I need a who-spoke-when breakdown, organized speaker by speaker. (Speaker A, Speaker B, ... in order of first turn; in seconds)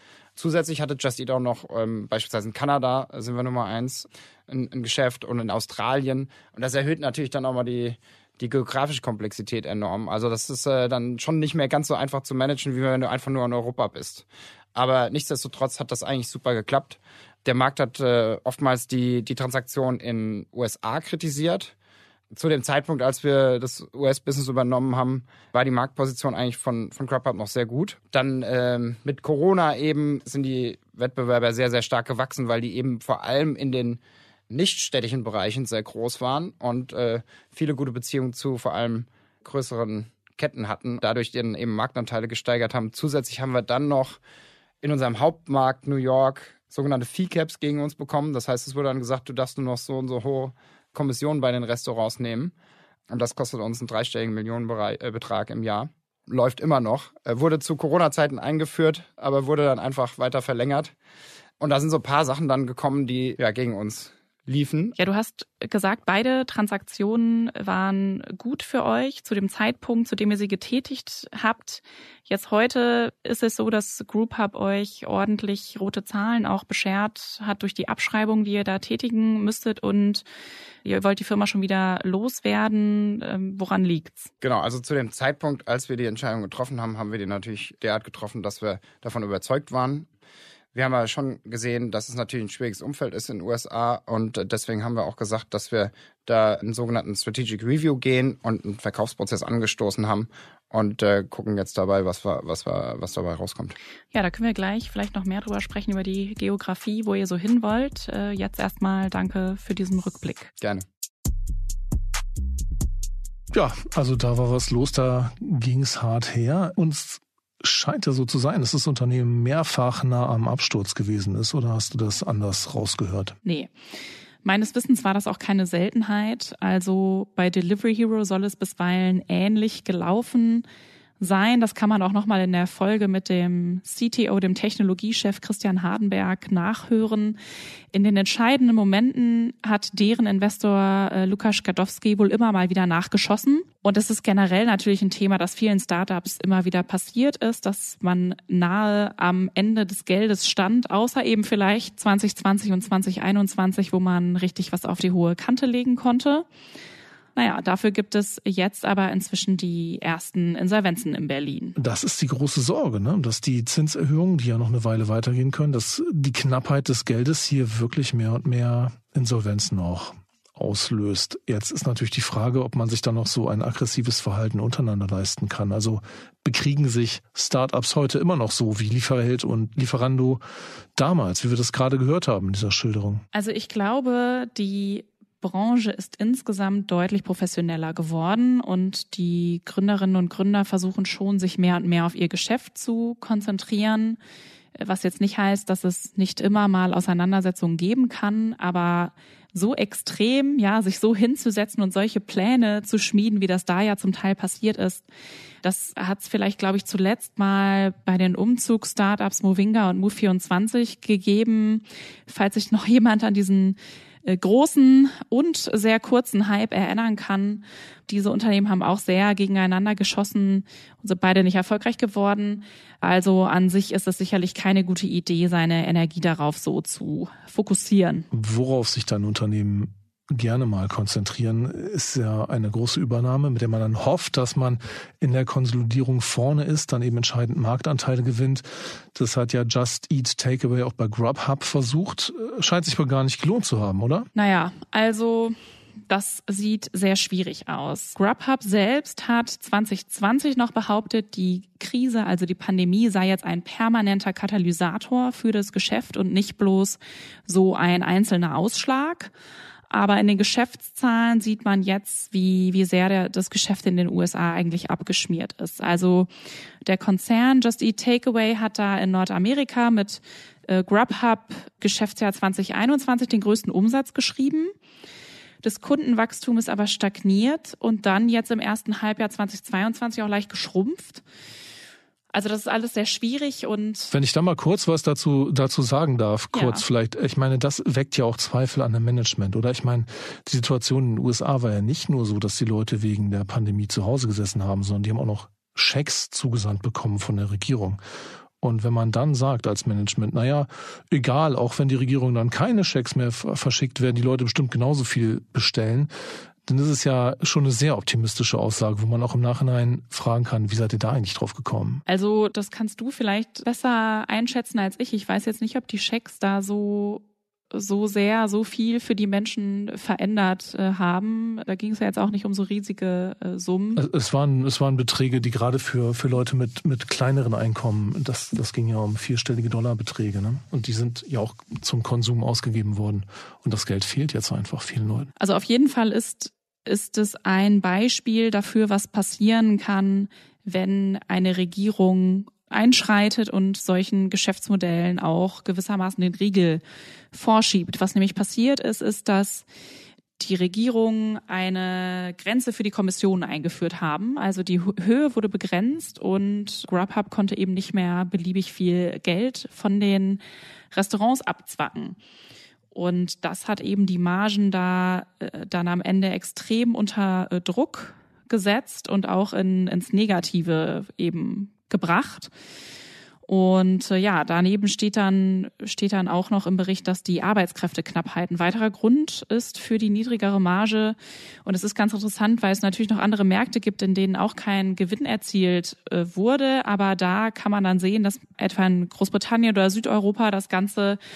Speaker A: 0.3-21.7, 22.3-44.2, 44.8-52.5, 53.1-60.9, 61.6-65.0, 84.4-90.1, 90.7-103.7, 110.6-110.8
Speaker B: 65.0-80.2, 80.8-84.3, 104.1-110.5, 123.4-123.7, 124.4-130.6, 131.2-137.4, 137.9-156.4, 157.3-161.8, 183.3-194.2, 194.8-205.1, 205.6-228.2, 244.3-245.6, 246.1-259.3, 259.9-266.3, 266.8-274.7, 275.6-281.2, 282.3-284.1, 286.5-286.8, 312.1-324.0, 335.4-349.6, 350.4-360.4, 360.9-362.2, 362.9-372.5, 373.4-391.2
Speaker C: 113.5-123.4, 161.8-180.4, 180.9-183.2, 228.3-244.3, 284.1-298.0, 298.6-306.1, 306.6-312.0, 323.9-335.3